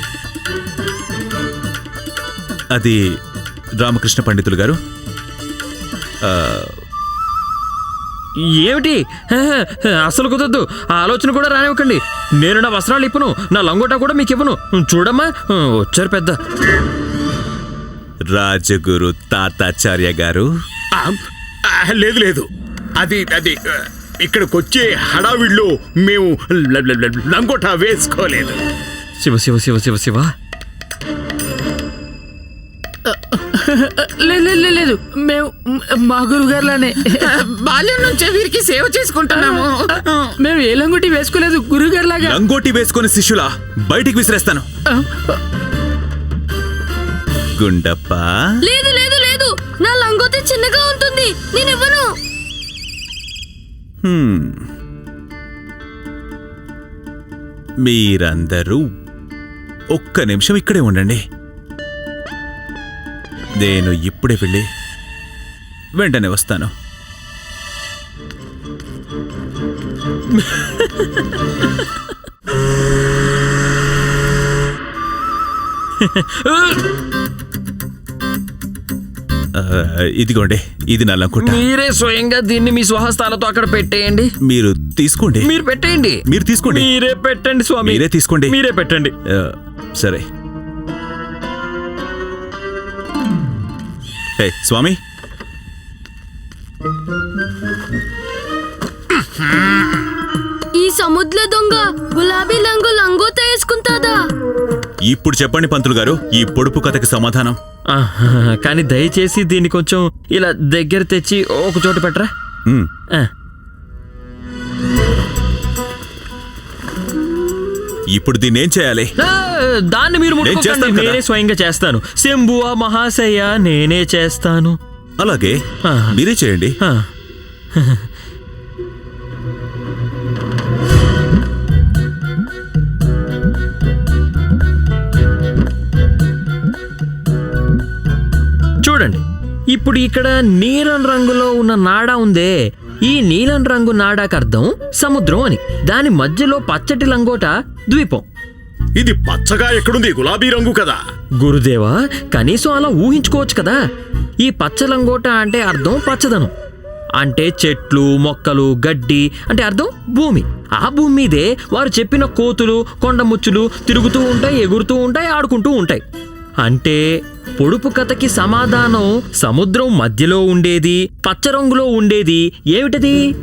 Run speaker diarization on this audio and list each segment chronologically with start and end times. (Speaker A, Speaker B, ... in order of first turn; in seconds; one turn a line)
Speaker A: 2.7-3.0
Speaker A: 3.8-4.8
Speaker A: 6.2-6.8
Speaker B: 8.6-16.4
Speaker A: 18.3-20.5
Speaker C: 21.7-22.5
Speaker C: 23.0-28.6
Speaker B: 29.2-30.3
Speaker D: 33.1-37.0
Speaker E: 37.2-40.3
Speaker D: 39.3-39.7
Speaker D: 40.4-42.4
Speaker A: 42.2-44.6
Speaker A: 47.5-48.5
Speaker F: 48.6-52.0
Speaker A: 54.0-54.7
Speaker A: 57.8-58.8
Speaker A: 59.9-61.2
Speaker A: 63.6-64.7
Speaker A: 65.9-66.7
Speaker B: 70.3-71.7
Speaker B: 76.0-76.8
Speaker A: 79.5-81.6
Speaker B: 81.4-84.3
Speaker A: 84.4-85.5
Speaker B: 85.4-89.1
Speaker A: 86.3-86.9
Speaker A: 87.8-88.5
Speaker A: 89.3-90.2
Speaker A: 94.4-95.0
Speaker F: 100.8-104.2
Speaker A: 105.0-107.6
Speaker B: 107.9-112.3
Speaker A: 118.1-119.1
Speaker B: 119.2-124.8
Speaker A: 120.4-121.2
Speaker A: 125.2-125.6
Speaker B: 125.9-126.2
Speaker A: 126.1-126.8
Speaker B: 126.8-127.1
Speaker B: 127.8-128.1
Speaker B: 138.8-148.2
Speaker C: 149.0-151.0
Speaker B: 151.4-153.8
Speaker B: 154.4-156.5
Speaker B: 157.2-166.0
Speaker B: 166.6-167.1
Speaker B: 167.6-173.2